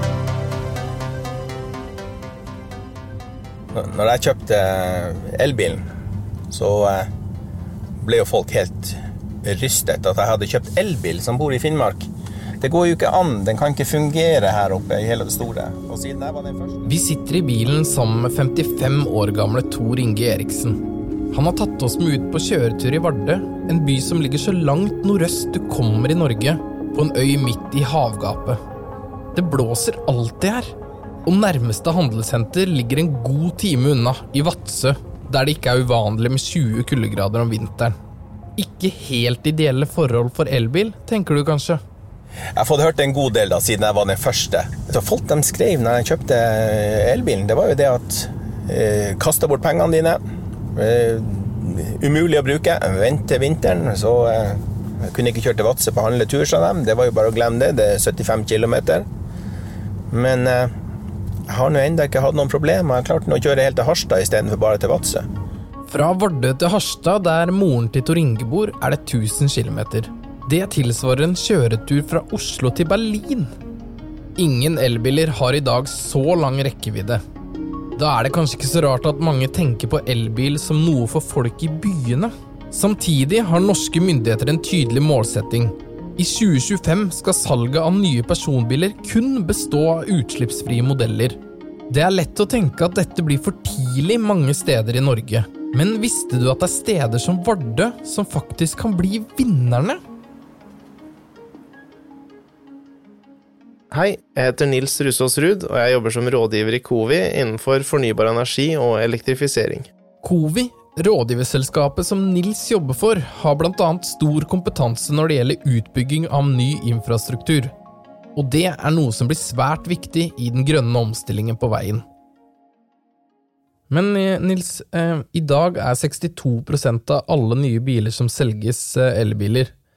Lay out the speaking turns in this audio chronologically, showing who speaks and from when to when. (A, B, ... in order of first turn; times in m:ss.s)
0:03.7-0:05.8 A
0:06.5-0:07.1 A
0:08.0-0:12.1 A
0:12.6-0:16.8 A
0:16.8-0:20.8 B
0:21.3-0:28.6 B
0:29.3-0:30.7 B
0:31.2-0:38.0 B
0:38.6-0:41.8 B
0:42.6-0:50.2 A
0:50.8-0:59.1 A
1:00.1-1:00.7 A
1:01.5-1:05.3 A
1:05.9-1:13.5 B
1:14.4-1:17.2 B
1:18.0-1:31.4 B
1:31.9-1:40.0 B
1:43.9-1:49.9 C
1:50.2-1:57.7 B
1:58.4-2:02.0 B
2:03.9-2:09.7 B